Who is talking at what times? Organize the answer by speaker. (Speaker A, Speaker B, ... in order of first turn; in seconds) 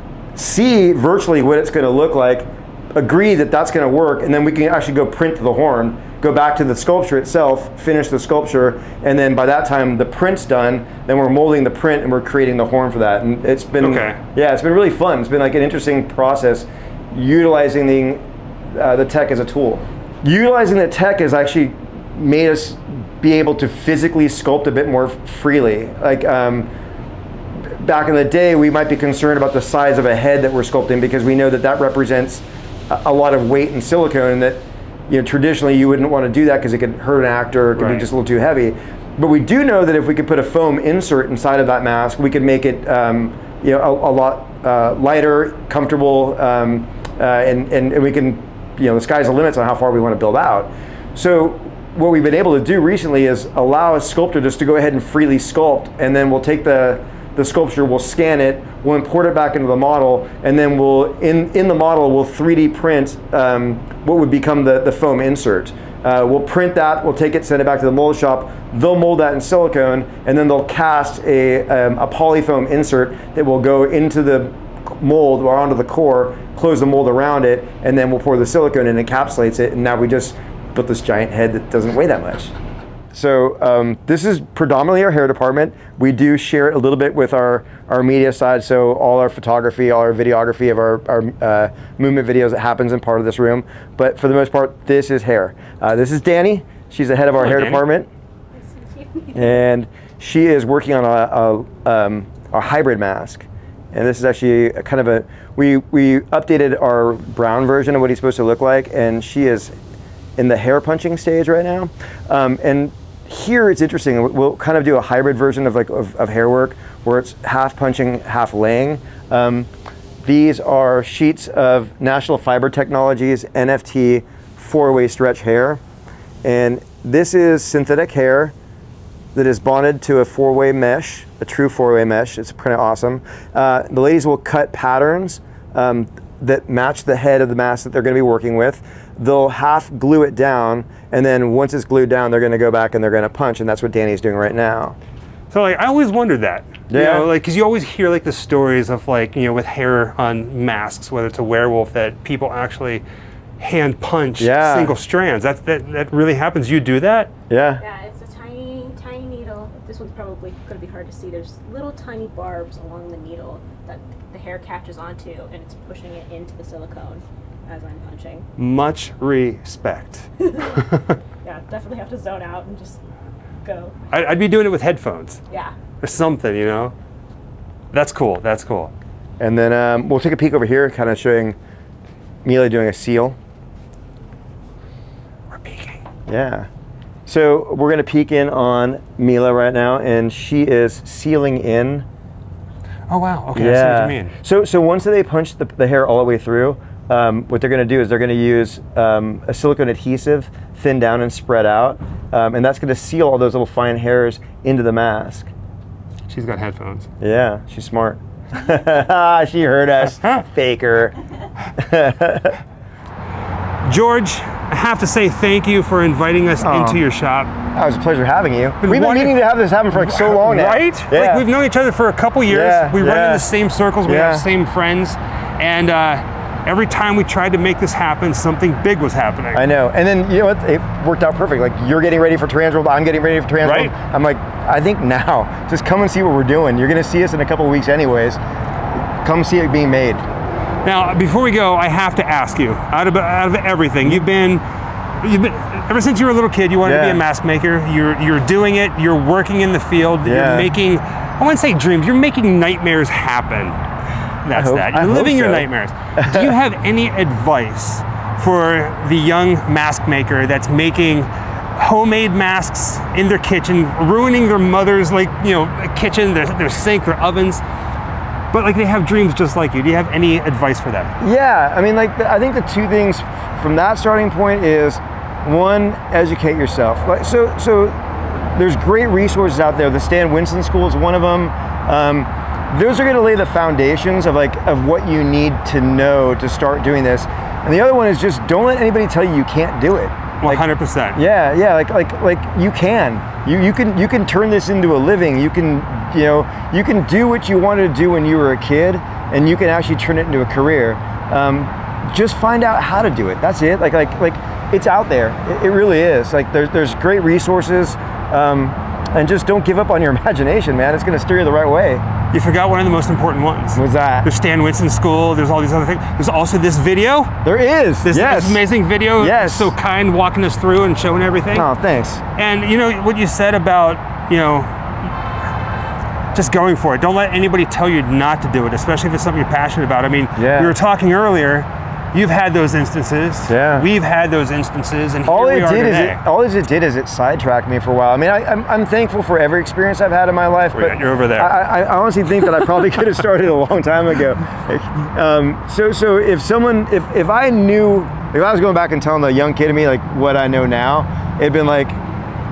Speaker A: 0.3-26.7, 27.6-82.5, 83.1-98.1, 99.3-109.7, 110.4-119.7, 120.2-125.8, 126.4-128.5, 129.3-145.0, 146.9-147.3, 154.4-154.9, 157.5-157.8, 179.4-181.6, 182.4-183.4, 186.3-186.7, 187.2-192.1, 193.5-205.5, 207.2-211.2, 211.8-212.6, 216.6-217.0, 217.7-221.5, 222.5-223.5, 224.0-224.5, 229.5-238.4, 239.2-240.2, 246.8-247.2, 250.2-250.7, 254.5-255.7, 256.2-256.5, 271.2-290.6, 291.1-312.0, 313.7-314.3, 317.4-318.6, 319.2-319.7, 321.5-322.2, 330.4-330.7, 333.5-333.9, 335.2-352.0
Speaker B: 13.8-14.2, 37.8-38.1, 97.4-97.8, 145.5-153.0, 153.6-157.3, 168.6-170.3, 174.1-175.4, 176.0-176.9, 177.9-178.9, 185.5-186.0, 193.1-194.3, 206.3-207.1, 213.8-217.5, 218.8-219.4, 219.9-229.6, 233.6-233.9, 240.8-244.6, 245.2-253.8, 254.4-267.6, 268.5-271.1, 290.4-291.2, 312.3-317.3, 318.0-321.7, 322.4-324.7, 326.3-336.2, 340.7-341.5
Speaker C: 98.6-99.5, 157.8-168.4, 170.4-173.0, 173.6-173.9